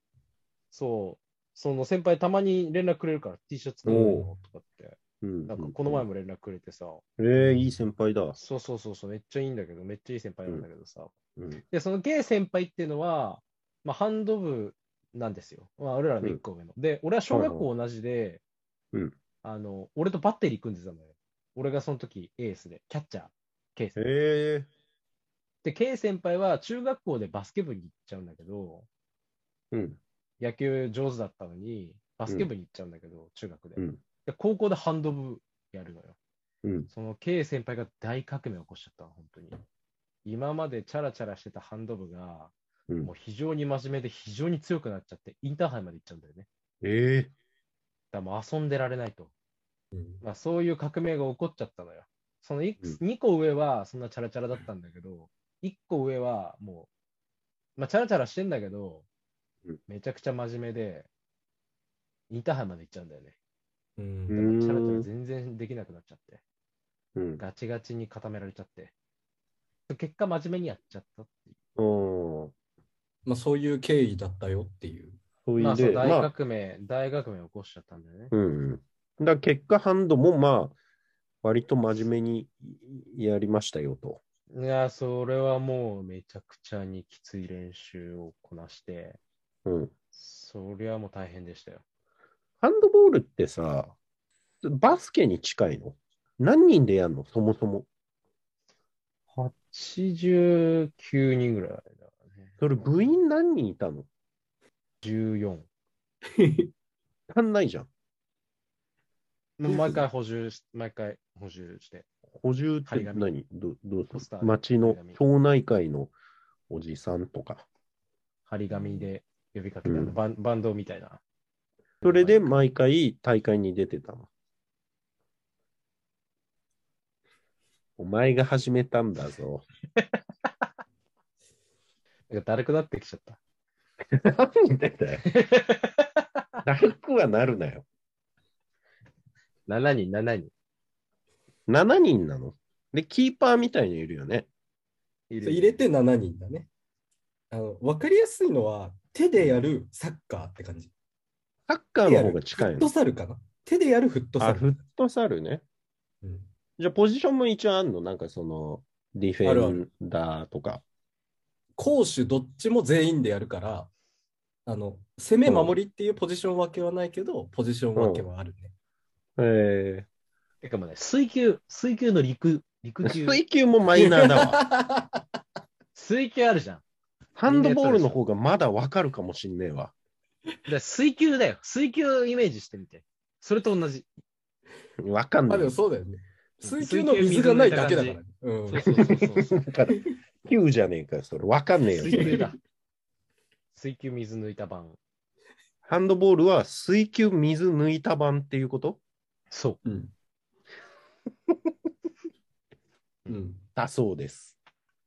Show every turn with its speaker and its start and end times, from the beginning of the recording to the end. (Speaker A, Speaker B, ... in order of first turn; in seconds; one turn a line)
Speaker A: 0.7-5.0
Speaker B: 3.9-4.3
Speaker C: 3.9-4.2
Speaker B: 5.2-6.0
Speaker A: 5.5-7.0
Speaker B: 7.2-8.4
Speaker C: 7.4-7.7
Speaker A: 8.4-11.1
Speaker B: 11.3-11.6
Speaker A: 11.7-18.4
Speaker B: 17.3-17.6
Speaker A: 19.4-24.0
Speaker B: 23.9-24.7
Speaker A: 25.6-28.9
Speaker B: 29.7-30.0
Speaker A: 30.4-36.2
Speaker B: 36.6-36.9
Speaker A: 36.9-39.6
Speaker A: 40.2-46.5
Speaker B: 46.8-47.3
Speaker A: 48.1-49.3
Speaker C: 49.9-50.2
Speaker A: 50.2-56.9
Speaker A: 57.8-59.0
Speaker A: 59.9-61.1
Speaker A: 62.3-63.4
Speaker C: 64.0-64.4
Speaker B: 64.3-65.1
Speaker A: 64.3-66.4
Speaker B: 67.1-67.4
Speaker A: 67.4-68.9
Speaker A: 69.9-71.5
Speaker B: 71.8-72.5
Speaker C: 73.2-75.2
Speaker B: 75.4-76.3
Speaker A: 75.6-78.3
Speaker B: 78.3-80.8
Speaker B: 81.4-84.2
Speaker A: 84.5-89.2
Speaker B: 89.6-89.9
Speaker A: 90.1-91.8
Speaker B: 92.6-93.9
Speaker B: 94.6-97.9
Speaker A: 99.3-102.5
Speaker B: 102.6-104.1
Speaker A: 105.0-105.7
Speaker C: 106.3-106.7
Speaker B: 107.3-107.9
Speaker A: 109.6-112.0
Speaker B: 109.6-110.0
Speaker B: 112.4-116.1
Speaker A: 112.8-113.3
Speaker A: 114.1-115.2
Speaker B: 116.7-117.7
Speaker A: 118.5-121.2
Speaker B: 119.8-120.2
Speaker A: 122.0-122.5
Speaker B: 122.0-124.3
Speaker B: 128.0-129.6
Speaker A: 132.3-133.4
Speaker B: 134.1-135.2
Speaker A: 135.3-136.2
Speaker B: 136.6-137.8
Speaker A: 139.7-140.5
Speaker B: 141.7-144.5
Speaker A: 145.3-145.8
Speaker C: 145.4-146.7
Speaker C: 147.5-150.9
Speaker B: 151.7-152.9
Speaker C: 152.0-154.7
Speaker B: 154.4-155.6
Speaker C: 156.2-156.5
Speaker B: 156.8-160.8
Speaker C: 159.4-159.8
Speaker C: 161.8-163.9
Speaker C: 164.7-168.7
Speaker B: 165.4-165.8
Speaker B: 167.9-168.3
Speaker B: 169.4-170.1
Speaker A: 170.6-173.4
Speaker B: 173.0-174.6
Speaker C: 173.9-175.2
Speaker A: 175.9-176.8
Speaker B: 177.4-179.9
Speaker A: 177.4-178.2
Speaker A: 180.7-184.1
Speaker B: 185.0-185.7
Speaker C: 185.5-189.2
Speaker A: 186.6-189.5
Speaker B: 188.8-192.4
Speaker A: 191.9-192.6
Speaker C: 192.1-192.5
Speaker A: 193.7-195.0
Speaker B: 195.8-199.0
Speaker A: 199.5-199.8
Speaker C: 199.8-200.1
Speaker C: 203.3-203.6
Speaker B: 203.8-204.6